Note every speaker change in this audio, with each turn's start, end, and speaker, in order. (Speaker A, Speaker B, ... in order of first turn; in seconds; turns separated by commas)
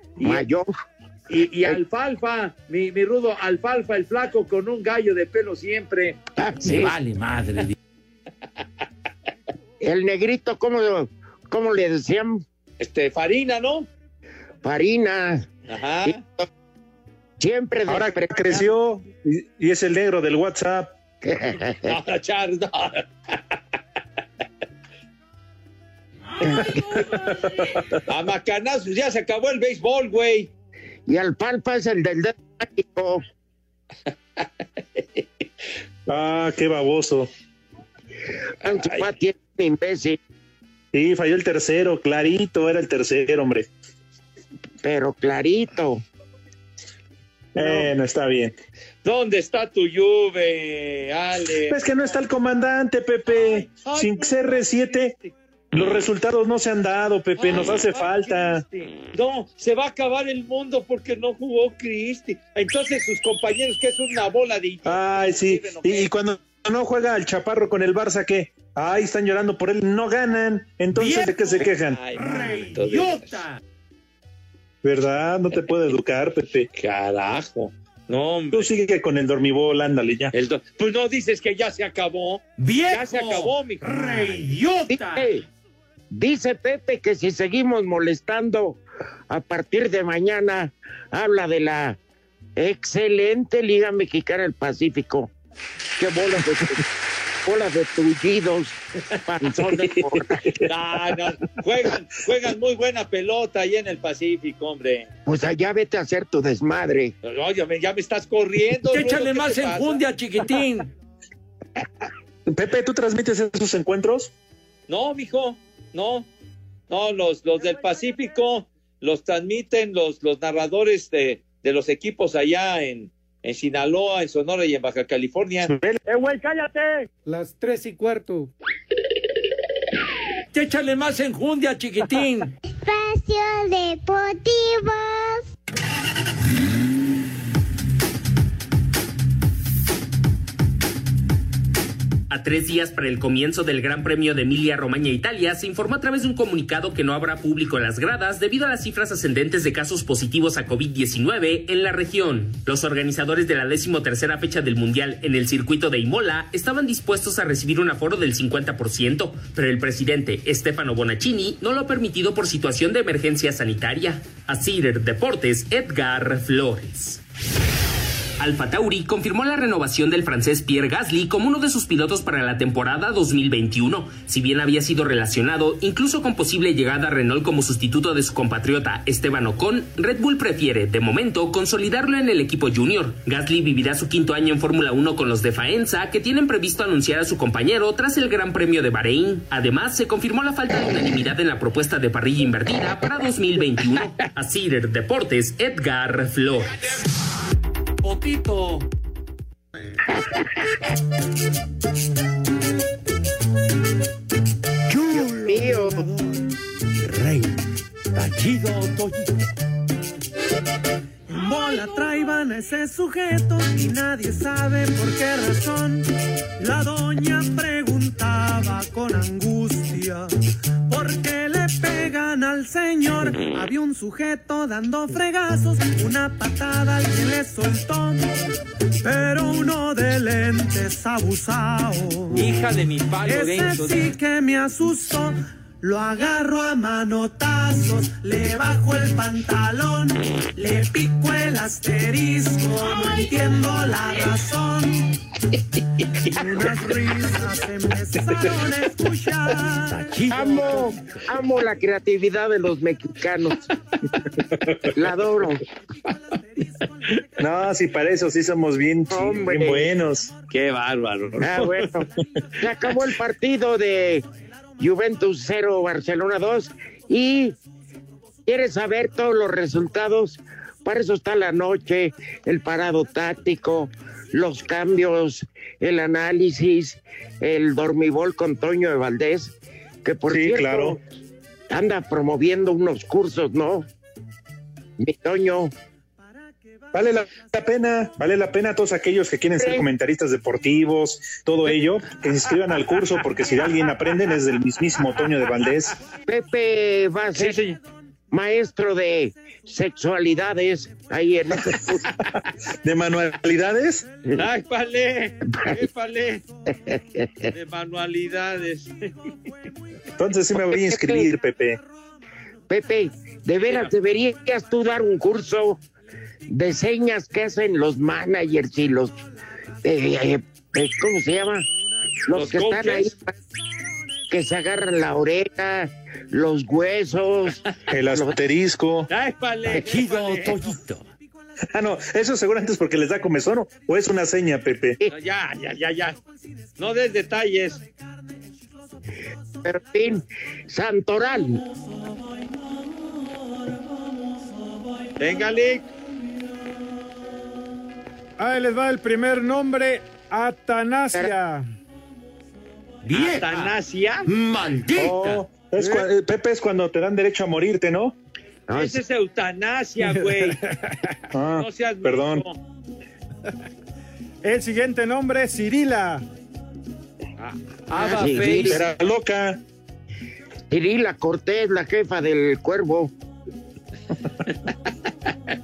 Speaker A: 0.2-0.5, Speaker B: 0.2-0.7, Speaker A: 1.3-6.2, Speaker B: 6.4-7.0, Speaker C: 6.6-7.7, Speaker B: 9.8-12.4, Speaker A: 12.8-13.9, Speaker B: 14.6-15.5, Speaker A: 15.7-16.2, Speaker B: 16.1-16.5, Speaker B: 17.4-18.7, Speaker D: 17.9-20.9, Speaker B: 21.2-21.9, Speaker A: 21.9-23.1, Speaker D: 26.4-28.0, Speaker A: 28.1-30.5, Speaker B: 31.1-33.2, Speaker D: 36.1-37.3, Speaker B: 38.6-40.2, Speaker A: 38.8-39.1, Speaker D: 40.9-43.7, Speaker B: 44.8-46.0, Speaker D: 47.5-48.5, Speaker A: 49.0-51.8, Speaker D: 51.7-55.1, Speaker A: 53.3-54.7, Speaker D: 55.7-58.6, Speaker A: 57.4-66.1, Speaker D: 64.9-72.0, Speaker C: 71.0-71.5, Speaker A: 71.5-73.4, Speaker C: 72.2-73.6, Speaker D: 74.8-76.7, Speaker A: 76.7-78.7, Speaker D: 78.5-80.3, Speaker A: 80.3-84.5, Speaker C: 82.6-85.3, Speaker B: 84.9-85.5, Speaker B: 86.1-92.0, Speaker B: 92.6-95.3, Speaker B: 96.0-96.8, Speaker B: 97.5-100.4, Speaker A: 100.7-105.1, Speaker B: 105.3-107.1, Speaker A: 107.2-110.0, Speaker C: 108.8-110.9, Speaker D: 112.5-114.3, Speaker A: 114.9-116.3, Speaker A: 116.9-125.7, Speaker D: 125.6-126.0, Speaker E: 126.1-128.4, Speaker A: 130.6-132.4, Speaker C: 132.0-132.4, Speaker F: 132.7-135.4, Speaker G: 142.3-167.2, Speaker G: 168.4-196.8, Speaker C: 198.0-198.9, Speaker B: 204.9-206.1, Speaker C: 206.9-207.6, Speaker C: 208.1-209.3, Speaker H: 211.3-220.3, Speaker H: 220.9-228.3, Speaker H: 229.0-232.5, Speaker A: 232.3-234.0, Speaker H: 233.2-245.2, Speaker H: 246.2-250.0, Speaker C: 249.9-251.0, Speaker B: 250.3-253.6, Speaker B: 254.9-255.6, Speaker D: 257.4-260.3, Speaker B: 259.1-259.9, Speaker A: 260.5-261.9, Speaker B: 261.4-262.1, Speaker B: 262.6-264.3, Speaker B: 264.8-267.6, Speaker B: 268.5-279.5, Speaker B: 280.0-281.0, Speaker D: 280.3-281.0, Speaker B: 281.7-283.9, Speaker B: 285.0-285.7, Speaker D: 286.9-295.9, Speaker B: 289.6-289.9, Speaker B: 296.3-297.6, Speaker A: 297.4-297.8, Speaker B: 298.3-302.1, Speaker D: 302.8-304.1, Speaker A: 304.3-306.4, Speaker B: 306.7-307.5, Speaker A: 307.5-309.0, Speaker D: 310.2-311.8, Speaker B: 310.7-311.3, Speaker B: 312.7-315.8, Speaker A: 313.6-313.9, Speaker B: 316.5-319.2, Speaker B: 319.8-321.6, Speaker B: 322.3-323.3, Speaker A: 322.3-323.1, Speaker B: 324.3-327.6, Speaker D: 327.9-329.1, Speaker B: 328.1-328.4, Speaker A: 329.1-330.6, Speaker C: 329.7-331.1, Speaker D: 331.7-335.0, Speaker A: 335.1-336.2, Speaker A: 336.8-337.8, Speaker B: 339.6-341.6, Speaker A: 345.2-345.9, Speaker E: 348.4-351.7, Speaker C: 353.0-353.7, Speaker A: 353.1-354.3, Speaker C: 354.3-355.4, Speaker D: 354.9-358.1, Speaker E: 355.8-356.1, Speaker B: 358.7-359.0, Speaker A: 358.7-360.6, Speaker D: 361.3-362.4, Speaker A: 361.6-362.6, Speaker E: 364.4-366.3, Speaker C: 367.9-368.8, Speaker A: 367.9-368.8, Speaker B: 368.0-368.7, Speaker D: 368.2-369.6, Speaker B: 370.7-373.1